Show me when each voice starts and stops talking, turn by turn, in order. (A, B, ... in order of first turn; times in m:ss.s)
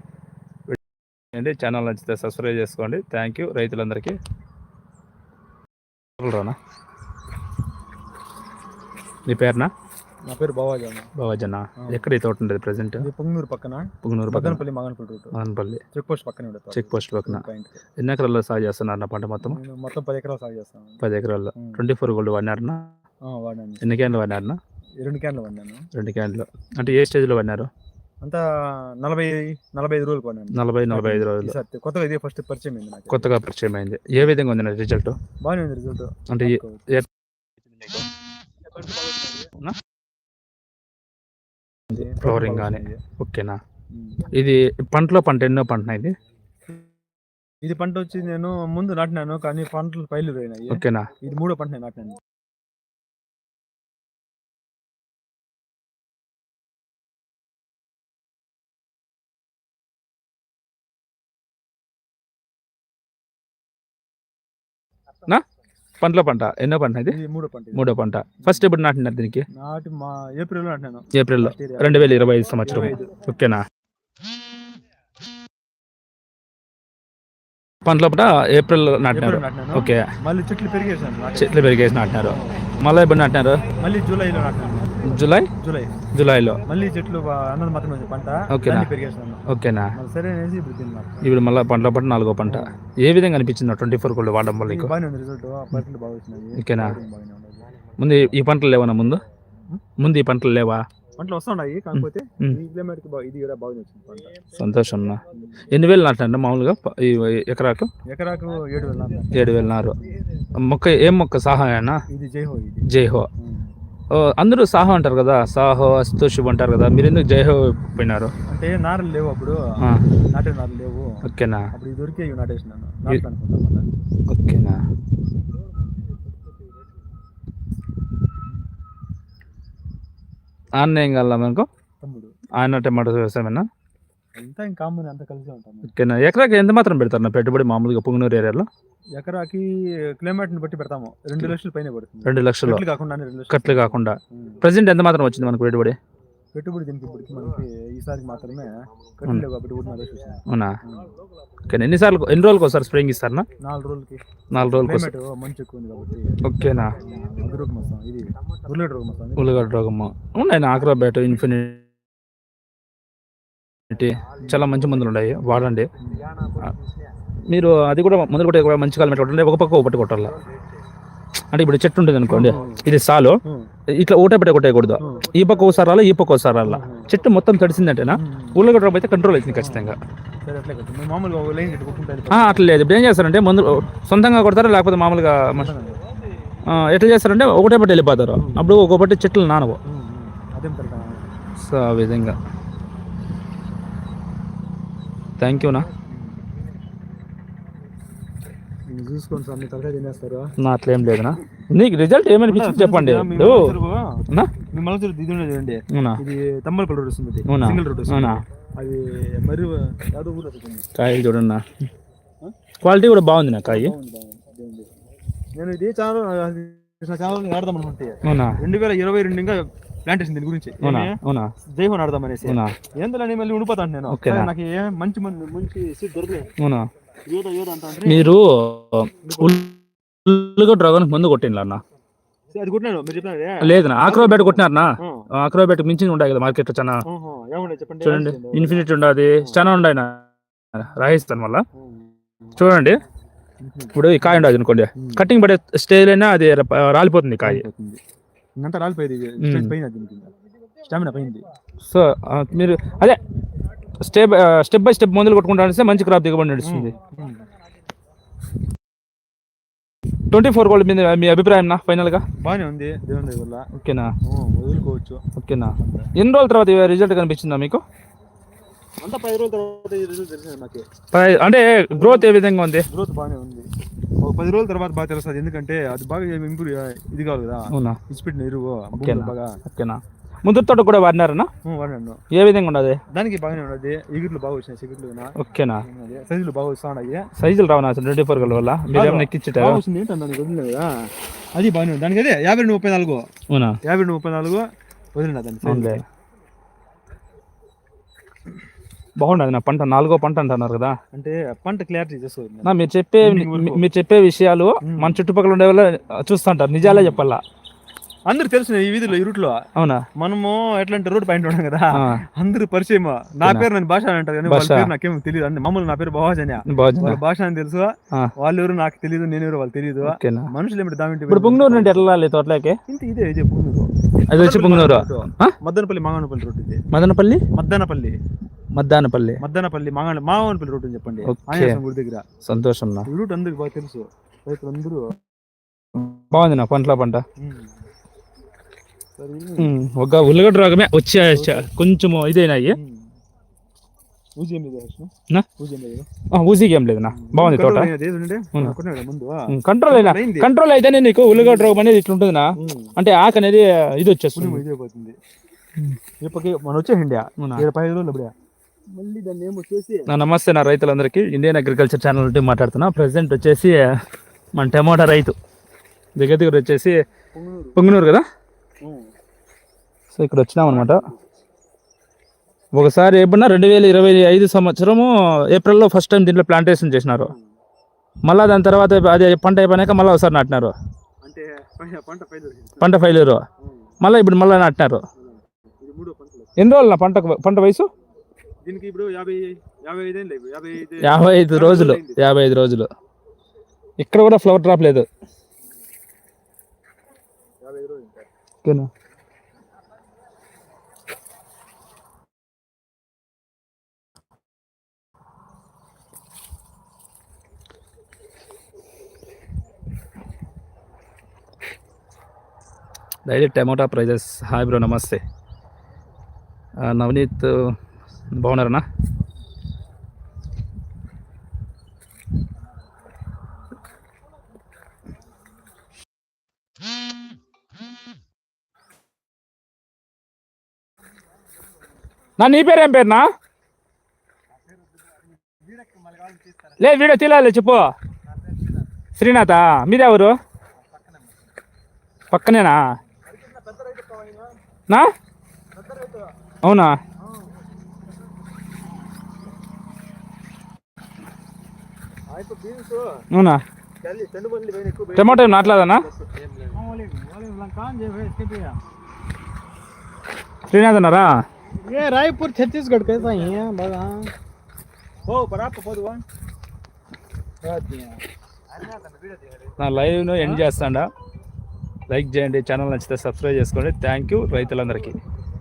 0:01.3-0:04.2 A
0:06.2-0:06.6 A
0:09.3-0:09.7 A
0:10.3-0:11.1 B
0:11.2-0:13.1 A
0:11.8-0:12.1 B
0:13.0-0:15.4 B
0:14.0-0:14.6 A
0:15.3-0:15.8 A
0:15.9-0:17.8 B
0:16.7-0:17.4 A
0:18.0-0:19.6 A
0:19.4-0:21.0 B
0:21.0-0:22.9 A
0:21.6-0:21.8 B
0:23.3-0:23.8 B
0:23.8-0:24.6 A
0:25.0-0:25.8 B
0:26.0-0:27.7 A
0:28.2-0:33.3 B
0:30.5-0:31.6 A
0:33.1-0:35.2 A
0:35.4-0:36.8 B
0:36.3-0:37.1 A
0:37.8-0:38.0 A
0:38.7-0:39.5 B
0:41.9-0:43.0 B
0:41.9-0:43.6 A
0:43.9-0:44.3 B
0:44.3-0:46.1 A
0:47.6-0:52.2 B
0:50.7-0:51.1 A
1:06.0-1:07.2 A
1:07.1-1:08.7 B
1:07.7-1:09.5 A
1:09.5-1:12.1 B
1:11.1-1:13.6 A
1:12.6-1:13.2 B
1:17.8-1:20.1 A
1:19.1-1:21.6 B
1:21.4-1:23.6 A
1:22.2-1:22.6 B
1:23.7-1:25.9 B
1:25.0-1:25.5 A
1:26.1-1:26.6 A
1:26.6-1:29.4 B
1:28.5-1:28.9 A
1:29.5-1:30.0 A
1:30.0-1:31.2 B
1:31.2-1:34.9 A
1:32.4-1:32.8 B
1:34.6-1:37.7 B
1:36.6-1:37.0 A
1:38.0-1:39.2 A
1:40.0-1:40.8 A
1:41.2-1:44.4 B
1:42.0-1:42.6 A
1:44.5-1:47.9 A
1:45.3-1:45.6 B
1:48.1-1:50.2 B
1:49.3-1:50.0 A
1:50.5-1:52.0 A
1:52.1-1:52.9 B
1:52.9-1:53.3 A
1:53.4-1:53.7 B
1:54.1-1:58.3 A
1:58.5-1:59.6 B
2:00.3-2:01.1 B
2:01.2-2:01.7 A
2:01.7-2:03.9 B
2:04.3-2:04.8 A
2:10.8-2:11.7 A
2:12.0-2:12.3 B
2:12.6-2:13.7 A
2:14.4-2:15.9 B
2:15.8-2:18.7 A
2:19.2-2:24.6 B
2:22.2-2:22.8 A
2:23.5-2:26.0 A
2:26.5-2:31.2 B
2:30.5-2:30.8 A
2:31.7-2:33.5 A
2:33.6-2:39.7 B
2:34.5-2:35.1 A
2:36.4-2:37.0 A
2:39.4-2:41.8 A
2:43.9-2:45.9 A
2:44.4-2:44.8 B
2:46.0-2:46.4 B
2:47.5-2:50.4 A
2:51.5-2:53.4 A
2:52.3-2:52.8 B
2:53.4-2:53.7 B
2:54.0-3:00.0 A
2:55.0-2:55.3 B
2:56.6-2:57.1 B
2:58.1-2:58.6 B
2:59.5-3:02.8 B
3:02.3-3:05.7 A
3:05.5-3:06.3 B
3:06.6-3:09.8 A
3:08.3-3:08.7 B
3:09.8-3:11.3 B
3:11.6-3:12.4 A
3:15.4-3:15.9 A
3:16.0-3:16.4 B
3:18.9-3:20.5 B
3:20.6-3:23.8 A
3:22.5-3:30.9 B
3:25.9-3:26.2 A
3:27.5-3:28.4 A
3:31.0-3:31.7 A
3:32.8-3:33.9 A
3:33.6-3:34.9 B
3:35.6-3:41.2 B
3:38.2-3:38.6 A
3:40.8-3:41.5 A
3:41.7-3:46.5 B
3:42.5-3:42.8 A
3:44.1-3:44.5 A
3:46.6-3:46.9 A
3:47.3-3:48.3 B
3:48.0-3:51.8 A
3:49.2-3:49.6 B
3:52.5-3:55.3 B
3:53.6-3:57.0 A
3:57.1-3:59.6 B
3:58.0-4:00.2 A
4:00.8-4:01.6 A
4:01.7-4:02.6 B
4:02.6-4:03.0 A
4:03.6-4:05.2 B
4:03.9-4:07.6 A
4:07.4-4:08.0 B
4:08.6-4:10.3 B
4:09.4-4:09.7 A
4:10.8-4:11.5 B
4:11.8-4:13.2 A
4:14.0-4:17.0 A
4:16.6-4:17.5 B
4:20.3-4:22.2 A
4:22.4-4:23.7 B
4:23.7-4:24.1 A
4:24.2-4:25.2 B
4:25.4-4:27.8 A
4:25.8-4:26.1 B
4:29.0-4:30.8 B
4:31.1-4:32.9 A
4:31.9-4:32.3 B
4:32.9-4:33.7 B
4:34.2-4:39.6 B
4:37.7-4:38.0 A
4:39.0-4:41.5 A
4:41.6-4:42.2 B
4:42.3-4:43.0 A
4:43.1-4:47.3 B
4:45.4-4:45.8 A
4:47.4-4:49.8 A
4:48.9-4:50.9 B
4:51.6-4:53.3 B
4:53.5-4:53.8 A
4:53.8-4:56.0 B
4:55.6-4:56.0 A
4:59.2-5:01.0 A
5:01.1-5:03.8 B
5:02.6-5:07.4 A
5:04.8-5:05.2 B
5:06.8-5:07.2 B
5:08.3-5:09.6 B
5:09.8-5:10.1 A
5:10.2-5:22.0 B
5:11.9-5:12.2 A
5:13.4-5:13.7 A
5:14.5-5:14.9 A
5:16.7-5:17.2 A
5:20.0-5:20.5 A
5:21.3-5:22.8 A
5:22.9-5:26.8 B
5:24.3-5:25.6 A
5:26.9-5:27.4 A
5:27.5-5:28.2 B
5:28.7-5:29.4 A
5:29.4-5:32.2 B
5:31.3-5:31.8 A
5:32.4-5:33.1 A
5:33.1-5:35.2 B
5:36.0-5:37.2 A
5:37.4-5:37.8 B
5:39.2-5:39.7 B
5:39.6-5:42.8 A
5:41.3-5:41.7 B
5:42.7-5:43.1 B
5:44.4-5:46.1 B
5:46.3-5:47.9 A
5:47.1-5:50.5 B
5:49.5-5:54.6 A
5:51.3-5:51.9 B
5:52.6-5:52.9 B
5:54.4-5:55.2 B
5:56.2-5:58.3 B
5:57.4-5:57.7 A
5:58.9-6:00.1 B
6:00.1-6:03.9 A
6:04.6-6:05.4 A
6:06.2-6:07.0 A
6:07.3-6:07.8 B
6:07.8-6:08.2 A
6:08.8-6:09.1 B
6:10.1-6:11.0 A
6:10.6-6:11.3 B
6:12.7-6:17.3 A
6:17.2-6:17.6 B
6:18.2-6:20.7 A
6:21.2-6:22.9 B
6:22.8-6:23.4 A
6:23.6-6:23.9 B
6:24.0-6:25.1 A
6:25.1-6:26.6 B
6:26.6-6:27.9 A
6:28.6-6:32.2 B
6:31.0-6:32.9 A
6:34.0-6:35.1 A
6:37.6-6:38.3 B
6:53.3-6:55.2 A
6:56.8-6:57.8 A
6:58.3-6:58.8 A
7:12.4-7:13.3 A
7:15.8-7:16.6 B
7:16.8-7:17.9 A
7:19.2-7:20.4 A
7:22.3-7:22.8 A
7:23.3-7:24.6 B
7:25.8-7:26.3 B
7:26.6-7:27.0 A
7:27.2-7:27.5 B
7:32.3-7:33.3 B
7:33.3-7:33.6 A
7:34.0-7:38.8 B
7:35.2-7:36.1 A
7:40.7-7:41.3 A
7:42.1-7:44.3 C
7:42.9-7:43.7 B
7:45.3-7:46.2 B
7:48.9-7:49.4 C
7:49.8-7:51.1 A
7:50.4-7:50.6 B
7:52.1-7:55.2 A